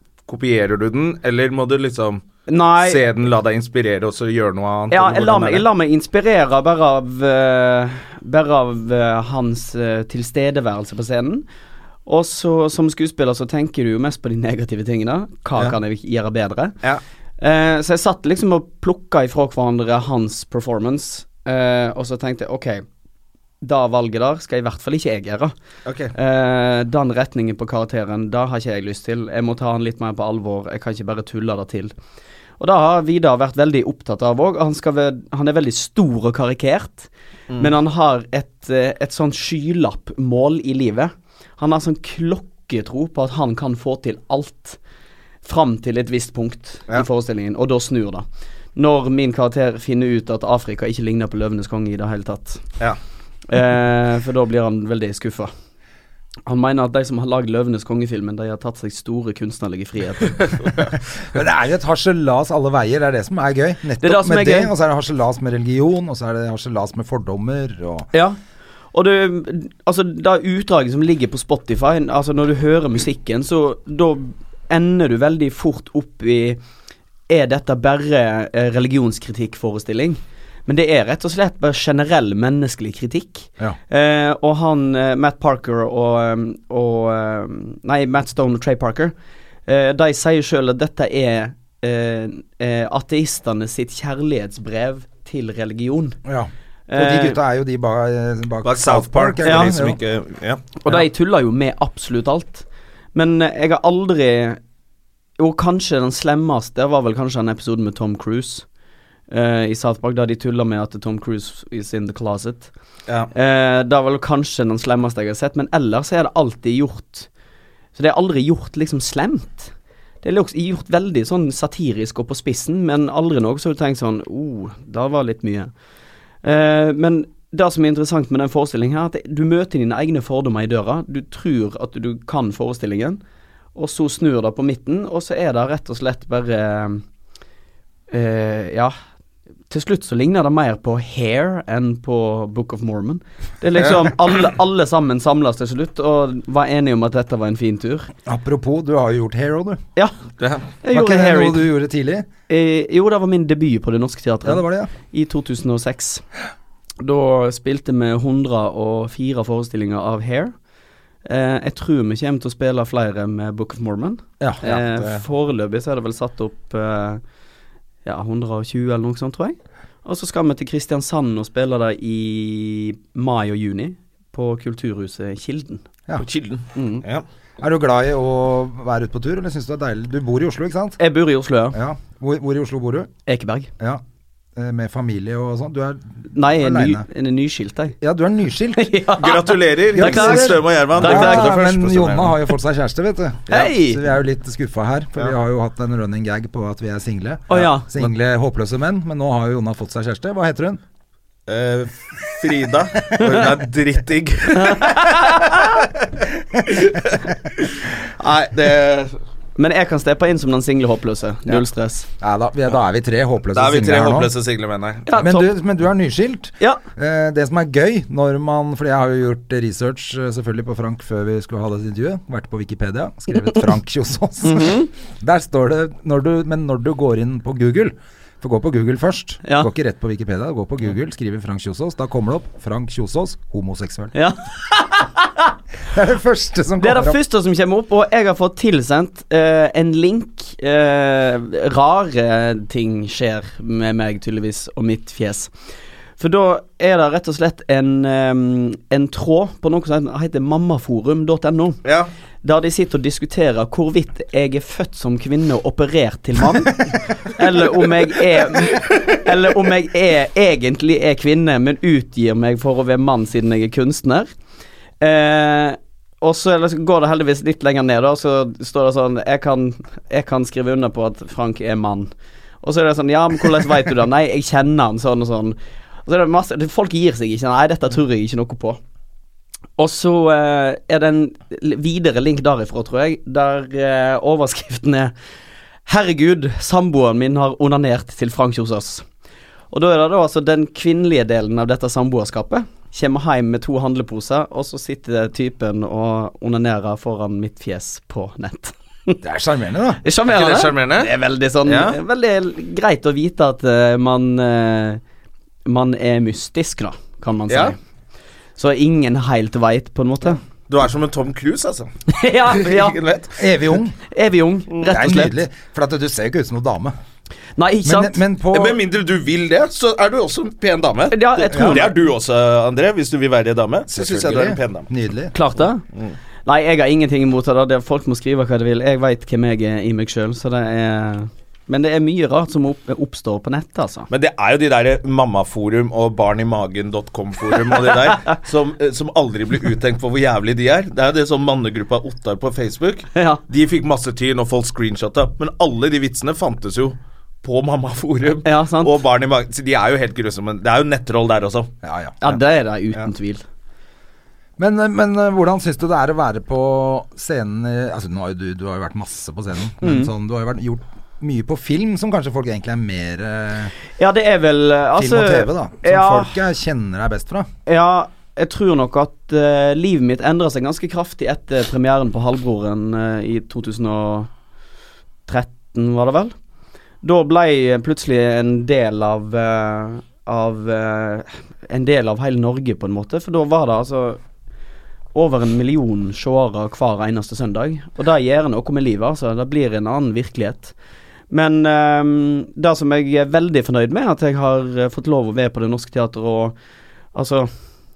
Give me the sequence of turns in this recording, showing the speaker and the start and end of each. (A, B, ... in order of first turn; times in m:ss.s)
0:00.3-0:02.2 A
0:02.5-0:03.0 B
0:02.8-0:05.6 A
0:04.9-0:11.4 B
0:12.1-0:16.8 B
0:17.4-0:22.8 B
0:23.6-0:25.5 B
0:25.9-0:26.1 A
0:26.2-0:31.9 B
0:32.6-0:44.8 B
0:45.4-0:52.8 B
0:53.5-0:55.5 B
0:56.5-1:00.8 B
1:01.3-1:08.1 C
1:04.0-1:04.7 B
1:08.9-1:16.6 B
1:17.3-1:29.1 B
1:29.7-1:36.2 B
1:36.2-1:40.0 C
1:36.9-1:37.4 B
1:38.6-1:40.9 A
1:40.8-1:44.6 B
1:45.4-1:48.7 B
1:49.3-1:52.7 B
1:53.3-1:57.3 B
1:58.0-2:05.7 B
2:06.4-2:13.2 B
2:13.8-2:17.0 B
2:18.1-2:18.9 B
2:19.7-2:28.1 B
2:28.3-2:29.8 C
2:30.4-2:30.7 A
2:30.8-2:31.7 B
2:30.9-2:32.3 C
2:32.5-2:36.2 B
2:34.4-2:34.9 C
2:37.0-2:40.5 B
2:41.3-2:47.2 B
2:44.7-2:45.0 A
2:48.0-2:55.8 B
2:56.2-2:57.2 A
2:56.8-2:57.0 B
2:57.6-3:01.0 C
3:01.0-3:01.8 B
3:01.7-3:03.1 C
3:03.3-3:03.7 B
3:04.6-3:07.1 C
3:06.3-3:08.0 B
3:08.0-3:08.9 C
3:08.8-3:11.5 B
3:09.2-3:12.4 A
3:10.0-3:20.8 C
3:13.5-3:14.0 B
3:17.5-3:17.9 B
3:17.5-3:18.1 A
3:21.5-3:25.9 A
3:24.6-3:25.5 B
3:26.6-3:29.2 A
3:29.6-3:32.1 B
3:32.2-3:34.3 C
3:33.5-3:35.1 A
3:35.1-3:35.5 B
3:35.2-3:54.1 C
3:44.4-3:44.9 B
3:54.2-3:55.4 B
3:55.9-3:57.2 C
3:56.8-4:05.5 B
4:06.2-4:11.8 B
4:11.8-4:12.1 A
4:12.4-4:24.3 B
4:18.6-4:19.0 A
4:25.0-4:32.1 B
4:32.6-4:38.8 B
4:39.8-4:45.1 B
4:45.9-4:49.1 B
4:49.7-4:59.2 B
4:59.2-5:00.0 C
5:00.0-5:05.0 B
5:00.3-5:01.1 A
5:01.6-5:02.0 A
5:05.7-5:07.8 B
5:07.5-5:07.8 A
5:08.6-5:10.4 B
5:10.7-5:11.9 A
5:12.1-5:13.0 B
5:12.6-5:13.4 A
5:13.4-5:14.0 C
5:14.1-5:15.4 B
5:14.9-5:16.9 C
5:17.6-5:18.2 B
5:17.8-5:18.8 C
5:18.5-5:24.9 A
5:21.1-5:22.0 B
5:21.5-5:21.8 C
5:23.9-5:25.3 C
5:25.3-5:25.8 B
5:26.4-5:34.1 B
5:34.1-5:51.7 A
5:43.2-5:43.4 B
5:48.4-5:49.0 B
5:51.8-5:52.4 C
5:52.2-5:53.4 B
5:54.6-6:03.7 C
5:59.8-6:00.1 B
6:04.0-6:06.4 B
6:05.0-6:07.5 C
6:07.7-6:14.3 B
6:15.3-6:16.3 B
6:17.0-6:24.2 B
6:25.1-6:30.8 B
6:31.3-6:36.6 B
6:37.1-6:37.5 B